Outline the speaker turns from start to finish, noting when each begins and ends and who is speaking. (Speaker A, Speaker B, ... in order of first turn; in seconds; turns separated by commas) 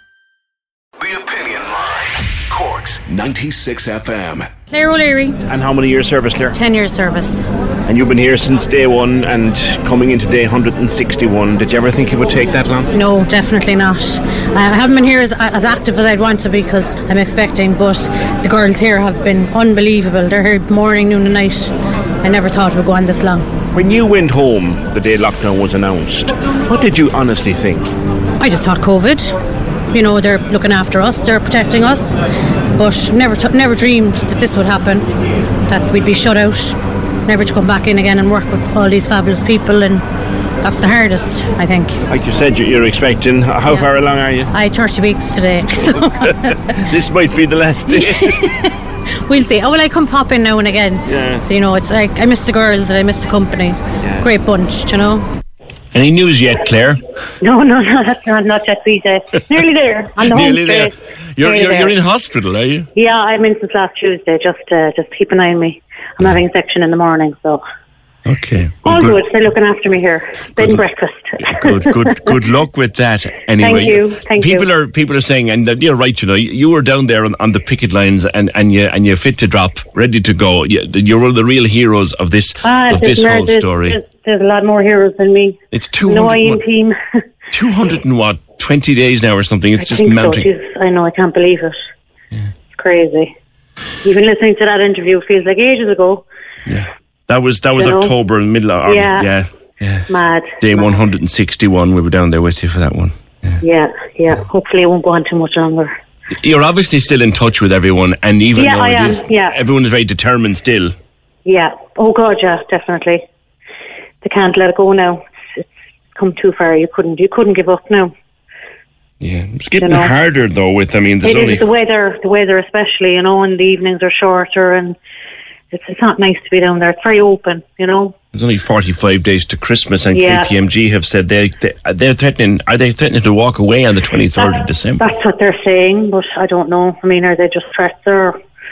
Speaker A: 1.0-4.5, Speaker B: 4.7-5.4, Speaker C: 5.5-6.6, Speaker B: 6.5-7.4, Speaker C: 7.9-12.9, Speaker B: 12.9-23.5, Speaker C: 23.7-27.9, Speaker B: 28.4-29.4, Speaker B: 29.9-32.1, Speaker B: 32.7-35.0, Speaker B: 35.7-40.0, Speaker B: 40.6-42.0, Speaker C: 42.1-44.5, Speaker B: 44.5-46.3, Speaker C: 46.8-48.0, Speaker D: 47.0-47.5, Speaker B: 47.9-48.8, Speaker B: 49.3-55.2, Speaker D: 55.9-57.0, Speaker E: 57.4-61.9, Speaker D: 60.2-62.9, Speaker E: 63.0-67.6, Speaker D: 68.3-69.2, Speaker E: 68.9-71.8, Speaker D: 70.6-70.8, Speaker D: 71.4-84.0, Speaker E: 73.6-74.7, Speaker E: 82.6-87.0, Speaker D: 85.7-86.6, Speaker D: 87.5-90.5, Speaker E: 89.8-91.8, Speaker E: 92.7-93.3, Speaker E: 94.0-96.3, Speaker D: 96.7-103.2, Speaker E: 97.8-98.1, Speaker E: 98.9-99.3, Speaker E: 100.1-101.0, Speaker E: 103.6-105.9, Speaker D: 106.4-110.9, Speaker E: 108.6-109.5, Speaker E: 111.5-113.2, Speaker E: 114.2-118.1, Speaker D: 119.2-121.7, Speaker E: 119.8-120.1, Speaker E: 121.2-125.0, Speaker E: 125.7-128.1, Speaker D: 128.3-135.1, Speaker E: 130.1-130.5, Speaker E: 134.4-138.3